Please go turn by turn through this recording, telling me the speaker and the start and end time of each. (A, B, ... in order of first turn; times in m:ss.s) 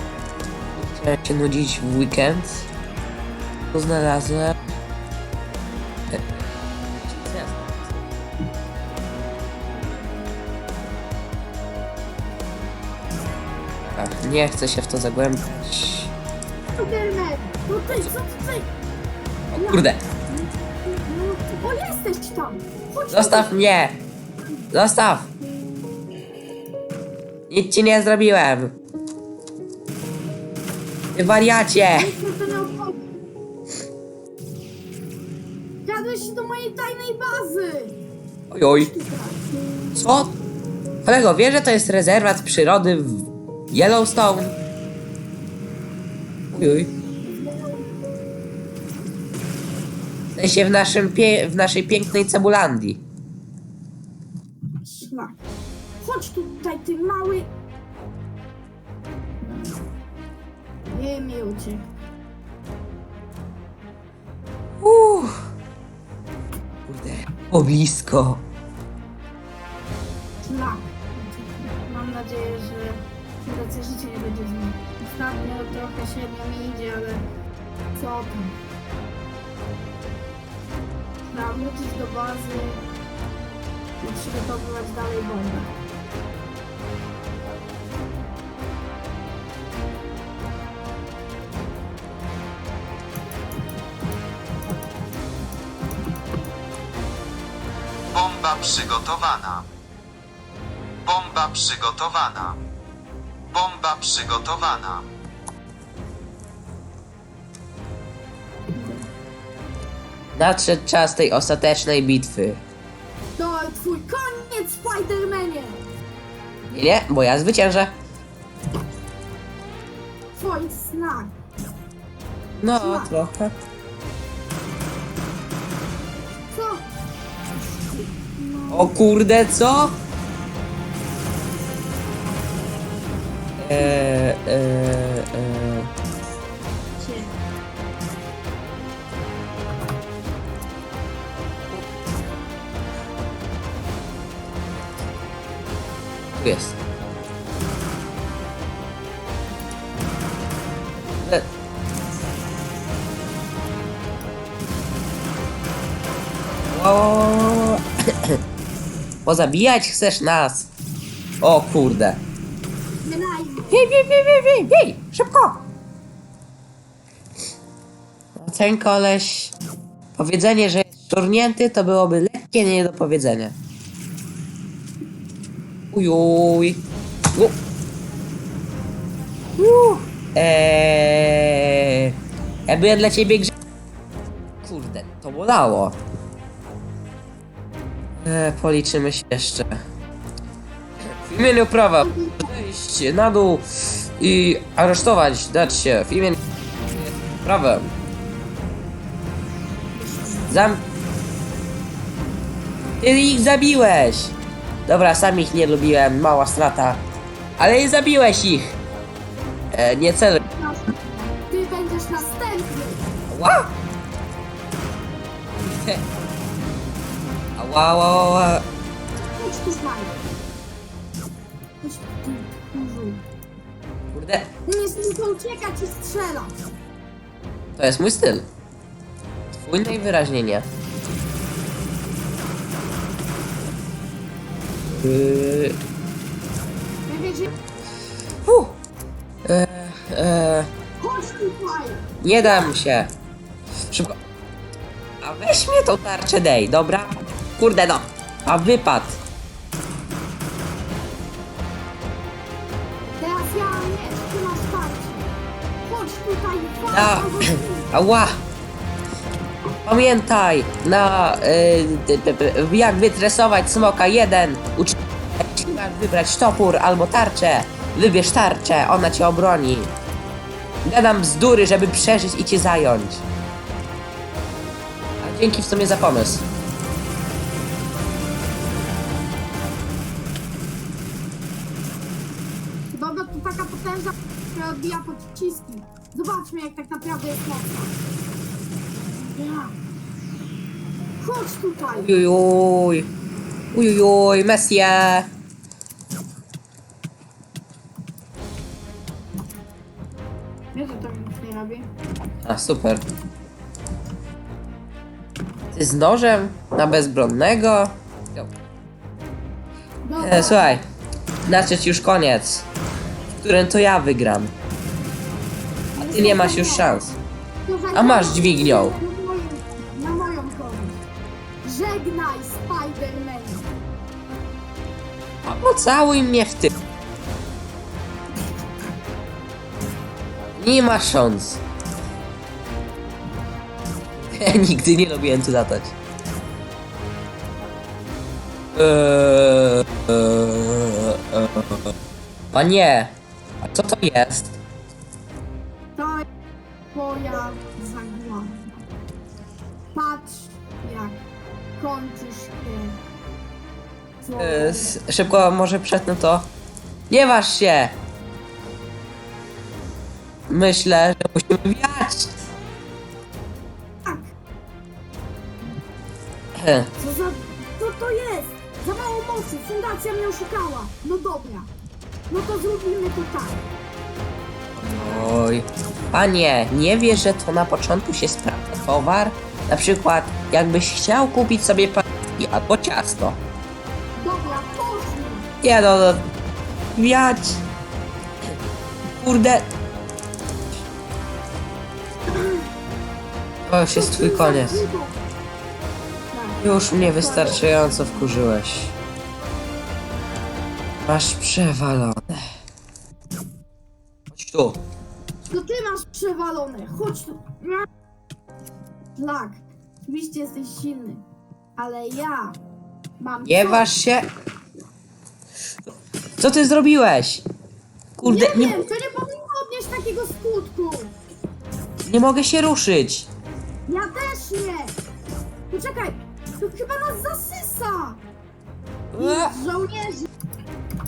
0:00.8-0:02.7 A
0:03.7-0:04.6 A
0:06.1-0:08.1 A
0:13.8-0:16.1 A
0:16.8-0:18.7 B
0:19.5-0:20.0 A
0:19.6-0:23.5 B
0:23.1-0:24.0 A
0:24.7-0:25.3 A
0:27.5-0:28.8 A
0:31.1-0:32.2 A
0:32.0-0:33.0 B
0:35.8-0:38.0 B
0:38.5-0:38.9 A
0:38.7-0:39.4 B
0:39.9-0:40.4 A
0:41.0-0:44.5 A
0:46.5-0:46.9 A
0:47.2-0:47.9 B
0:50.4-0:53.0 A
0:54.8-0:55.4 B
0:56.0-0:57.5 B
0:59.4-0:59.8 B
1:00.8-1:01.9 B
1:04.8-1:05.4 A
1:06.9-1:08.4 A
1:10.4-1:17.2 B
1:17.9-1:18.6 B
1:21.2-1:22.8 B
1:24.0-1:25.7 B
1:38.1-1:39.7 C
1:41.1-1:42.6 C
1:43.5-1:45.1 C
1:48.7-1:49.1 B
1:50.4-1:52.6 A
1:53.4-1:55.8 B
1:56.7-1:57.9 A
2:00.3-2:01.4 B
2:02.6-2:03.6 A
2:02.7-2:03.1 B
2:06.5-2:06.9 B
2:07.6-2:09.0 B
2:08.7-2:10.0 A
2:13.6-2:15.9 A
2:17.0-2:17.4 B
2:26.4-2:26.8 A
2:31.2-2:31.5 A
2:36.7-2:38.4 A
2:39.3-2:40.7 A
2:41.4-2:42.2 A
2:43.0-2:43.9 B
2:43.7-2:45.6 A
2:48.4-2:49.5 A
2:50.2-2:53.6 A
2:55.9-2:56.8 A
2:59.6-3:02.2 A
3:02.7-3:03.5 A
3:04.6-3:06.0 A
3:08.2-3:09.7 A
3:11.2-3:16.4 A
3:12.0-3:12.5 B
3:16.9-3:17.9 A
3:19.9-3:20.6 B
3:20.5-3:20.8 A
3:23.0-3:24.3 A
3:24.9-3:27.0 A
3:27.6-3:28.7 A
3:29.7-3:30.4 A
3:30.4-3:33.1 B
3:33.3-3:33.7 A
3:35.6-3:36.0 A
3:37.6-3:38.7 A
3:39.2-3:40.2 B
3:41.8-3:43.2 B
3:44.1-3:44.5 A
3:44.7-3:46.6 B
3:47.8-3:48.5 A
3:49.6-3:50.7 A
3:54.9-3:55.8 A
3:57.1-3:57.5 B
3:58.4-3:58.8 A
3:59.4-4:00.7 A
4:01.0-4:02.7 B
4:02.2-4:03.1 A
4:03.9-4:04.2 A
4:05.2-4:09.2 A
4:13.1-4:17.9 B
4:16.9-4:18.4 A
4:19.8-4:29.9 A
4:30.8-4:33.3 A
4:35.2-4:36.5 A
4:42.9-4:47.9 B
4:49.1-4:49.8 B
4:51.2-4:52.2 B
4:51.9-4:53.1 A
4:53.7-4:55.3 A
5:00.7-5:01.9 B
5:02.4-5:03.0 A
5:05.7-5:08.5 A
5:10.0-5:10.8 B
5:10.2-5:10.8 A
5:11.5-5:12.7 A
5:13.4-5:14.5 A
5:16.0-5:16.9 B
5:16.0-5:17.2 A
5:17.7-5:21.0 B
5:17.9-5:19.0 A
5:21.6-5:23.7 B
5:25.4-5:26.7 A
5:30.6-5:31.6 A
5:34.2-5:36.0 A
5:38.8-5:41.8 A
5:42.5-5:44.6 A
5:46.0-5:46.3 B
5:46.9-5:48.8 B
5:49.9-5:51.2 B
5:51.8-5:53.0 B
5:54.2-5:55.0 B
5:54.4-5:56.5 A
5:57.1-5:58.0 A
6:00.5-6:02.4 A
6:04.0-6:04.3 B
6:06.6-6:06.9 A
6:07.0-6:11.7 B
6:12.3-6:13.6 B
6:14.8-6:23.4 A
6:24.2-6:25.5 B
6:25.6-6:26.3 A
6:26.9-6:27.6 A
6:29.2-6:29.7 A
6:33.7-6:34.8 A
6:33.9-6:35.2 B
6:36.3-6:38.4 B
6:36.6-6:38.9 A
6:41.0-6:42.4 A
6:44.3-6:44.8 A
6:45.5-6:47.9 B
6:49.2-6:51.2 B
6:51.8-6:52.6 B
6:53.2-6:53.9 B
6:53.4-6:54.3 A
6:56.4-6:57.4 A
6:58.2-6:58.8 A
6:58.2-7:01.2 B
7:02.1-7:03.3 A
7:03.9-7:05.0 B
7:05.7-7:08.2 B
7:09.1-7:09.6 A
7:09.2-7:10.3 B